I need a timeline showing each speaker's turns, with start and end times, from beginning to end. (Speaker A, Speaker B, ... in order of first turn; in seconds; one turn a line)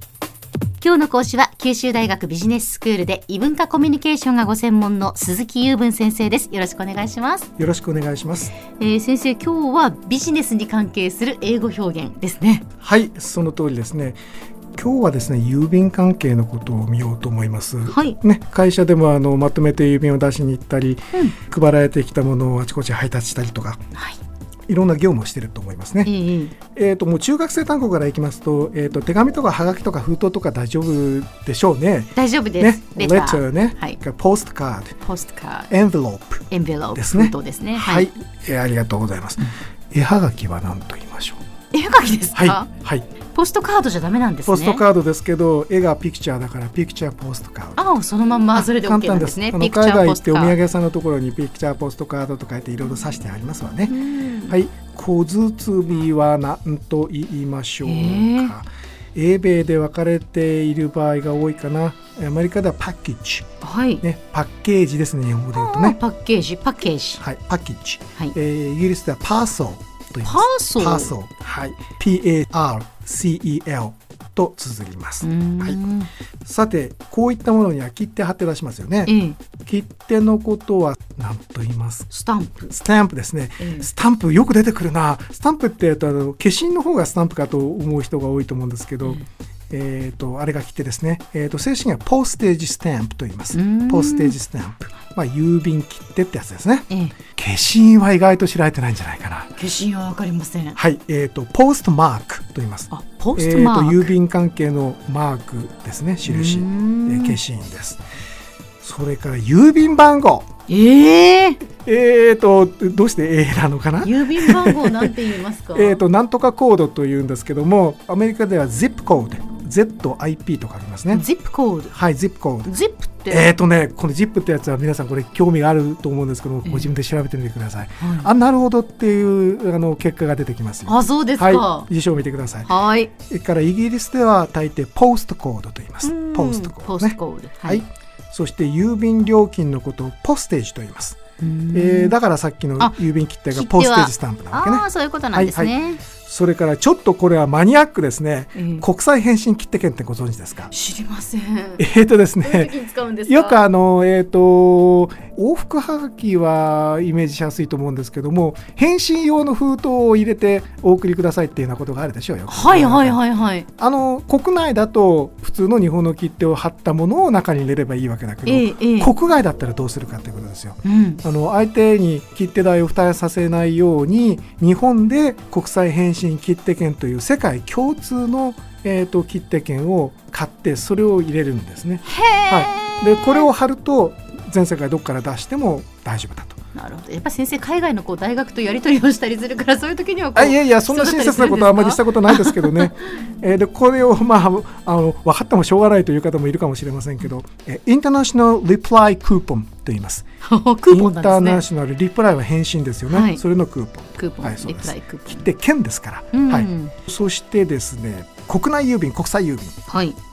Speaker A: 0.8-7.5
Speaker B: 7.6-8.5
Speaker A: 8.7-12.7
Speaker B: 12.8-14.2
Speaker B: 14.8-23.8
Speaker A: 17.9-18.2
Speaker B: 24.7-26.1
Speaker A: 26.1-26.6
Speaker B: 26.7-35.0
Speaker A: 32.1-34.0
Speaker A: 35.0-35.7
Speaker B: 35.7-41.4
Speaker A: 36.5-38.1
Speaker A: 41.7-42.7
Speaker B: 42.3-43.1
Speaker A: 43.3-44.8
Speaker B: 44.5-47.9
Speaker A: 47.8-50.6
Speaker B: 48.5-63.5
Speaker A: 53.9-54.6
Speaker A: 57.8-58.5
Speaker A: 63.6-64.0
Speaker B: 64.0-66.0
Speaker A: 65.6-67.2
Speaker B: 67.2-75.8
Speaker A: 70.2-71.1
Speaker A: 75.2-76.1
Speaker B: 76.5-79.1
Speaker A: 79.0-79.4
Speaker B: 79.7-82.1
Speaker A: 82.1-82.7
Speaker B: 82.6-99.5
Speaker A: 83.6-83.9
Speaker A: 93.5-94.4
Speaker A: 96.9-97.2
Speaker A: 99.6-100.8
Speaker B: 100.8-108.0
Speaker A: 102.9-104.1
Speaker A: 106.3-107.4
Speaker B: 108.8-110.5
Speaker A: 110.7-111.6
Speaker B: 111.8-115.2
Speaker A: 114.0-116.0
Speaker B: 115.7-121.3
Speaker A: 121.1-122.0
Speaker B: 121.9-122.7
Speaker A: 122.7-123.5
Speaker B: 123.3-141.2
Speaker A: 126.7-126.9
Speaker A: 128.0-128.3
Speaker A: 130.9-131.9
Speaker A: 132.7-133.1
Speaker A: 136.0-137.8
Speaker A: 141.4-142.2
Speaker B: 141.7-150.7
Speaker A: 143.5-146.0
Speaker A: 148.6-148.8
Speaker A: 150.7-151.8
Speaker B: 151.8-152.7
Speaker A: 152.4-153.6
Speaker B: 153.3-163.2
Speaker A: 162.5-163.7
Speaker B: 163.8-186.6
Speaker A: 168.5-169.1
Speaker A: 170.8-171.2
Speaker A: 182.1-183.5
Speaker A: 186.8-193.0
Speaker B: 190.3-200.2
Speaker A: 200.4-201.7
Speaker B: 200.9-209.8
Speaker A: 203.1-203.4
Speaker A: 204.2-205.5
Speaker A: 206.3-206.9
Speaker A: 209.9-210.2